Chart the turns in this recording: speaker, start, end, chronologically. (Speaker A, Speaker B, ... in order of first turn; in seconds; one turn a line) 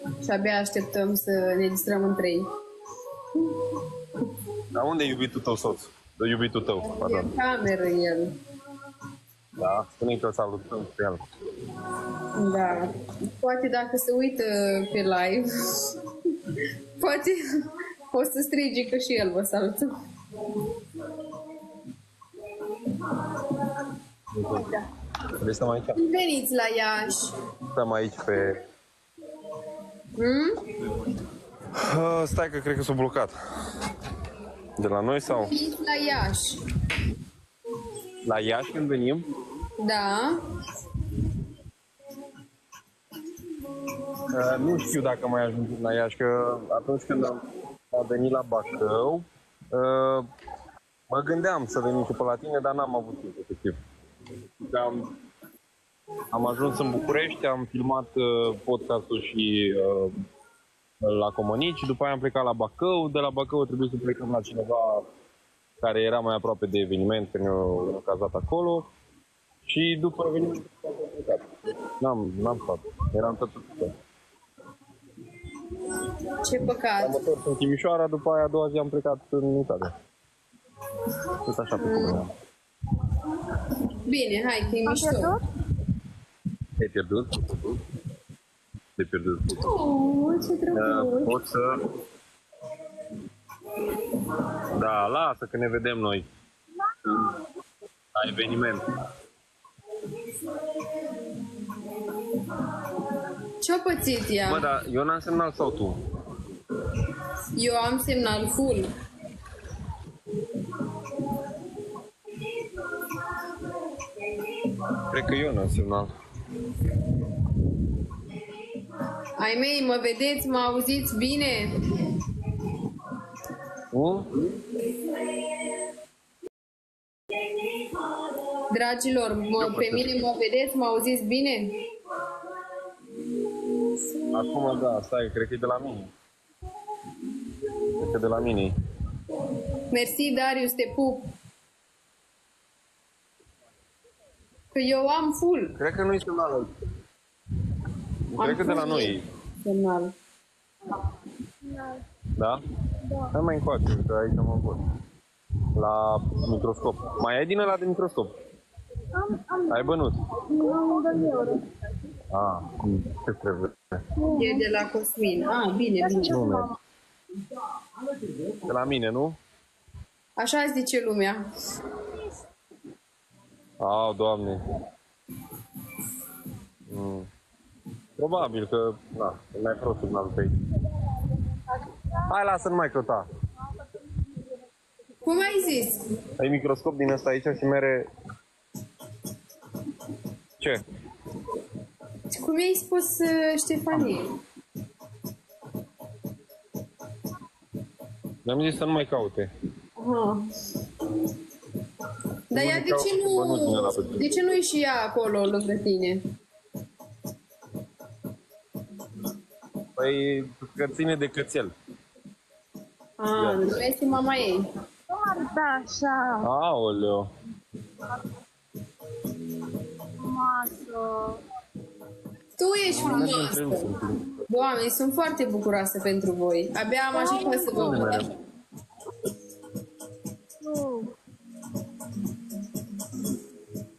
Speaker A: 0.2-2.5
Speaker B: 4.7-7.3
Speaker A: 6.8-8.3
Speaker B: 9.6-11.2
Speaker A: 12.3-15.4
Speaker A: 16.5-17.4
Speaker A: 18.1-19.9
Speaker B: 24.3-24.7
Speaker B: 25.4-26.0
Speaker A: 26.0-27.3
Speaker B: 27.7-28.6
Speaker A: 30.1-30.5
Speaker B: 31.8-33.3
Speaker B: 34.8-35.5
Speaker A: 35.3-36.6
Speaker B: 38.2-39.2
Speaker A: 39.8-40.3
Speaker B: 44.3-47.4
Speaker B: 47.9-50.2
Speaker B: 51.1-53.8
Speaker B: 54.6-55.1
Speaker B: 56.3-60.1
Speaker B: 61.0-65.0
Speaker B: 65.8-68.9
Speaker B: 69.7-71.4
Speaker B: 72.0-73.9
Speaker A: 76.4-77.2
Speaker B: 77.0-79.9
Speaker B: 81.4-82.3
Speaker A: 81.8-82.2
Speaker A: 84.0-85.3
Speaker C: 84.8-85.4
Speaker B: 86.8-87.8
Speaker B: 89.0-89.7
Speaker A: 89.5-91.3
Speaker B: 90.7-91.8
Speaker B: 94.7-96.3
Speaker B: 98.1-98.8
Speaker A: 103.6-104.6
Speaker B: 104.5-106.0
Speaker A: 107.6-108.9
Speaker B: 115.1-116.1
Speaker A: 119.3-121.8
Speaker B: 123.9-124.4
Speaker A: 128.7-131.7
Speaker B: 129.6-130.2
Speaker B: 134.3-136.1
Speaker B: 137.8-138.7
Speaker A: 139.9-141.3
Speaker A: 144.7-145.7
Speaker B: 145.8-146.7
Speaker B: 148.3-149.2
Speaker A: 148.4-150.1
Speaker C: 151.6-152.0
Speaker C: 153.0-153.3
Speaker B: 153.3-154.8
Speaker B: 155.8-158.3
Speaker C: 159.1-161.7
Speaker B: 159.7-160.2
Speaker B: 162.3-164.0
Speaker C: 164.2-164.7
Speaker A: 164.3-166.4
Speaker C: 166.0-166.8
Speaker B: 166.3-166.7
Speaker B: 168.6-169.4
Speaker A: 170.4-171.4
Speaker B: 173.8-174.6
Speaker B: 176.9-177.3
Speaker B: 178.2-180.5
Speaker C: 181.3-182.1
Speaker B: 182.3-183.3
Speaker A: 185.2-186.0
Speaker B: 186.4-188.1
Speaker A: 192.3-194.3
Speaker B: 198.4-199.5
Speaker A: 200.0-200.4
Speaker A: 202.5-206.2
Speaker B: 202.5-204.2
Speaker B: 210.0-211.7
Speaker A: 213.2-214.6
Speaker B: 213.3-213.6
Speaker C: 215.1-216.5
Speaker B: 216.4-217.3
Speaker C: 220.2-221.4
Speaker A: 222.6-223.9
Speaker B: 222.9-224.3
Speaker A: 224.5-228.2
Speaker C: 227.1-228.2
Speaker B: 227.7-228.3
Speaker C: 230.6-231.1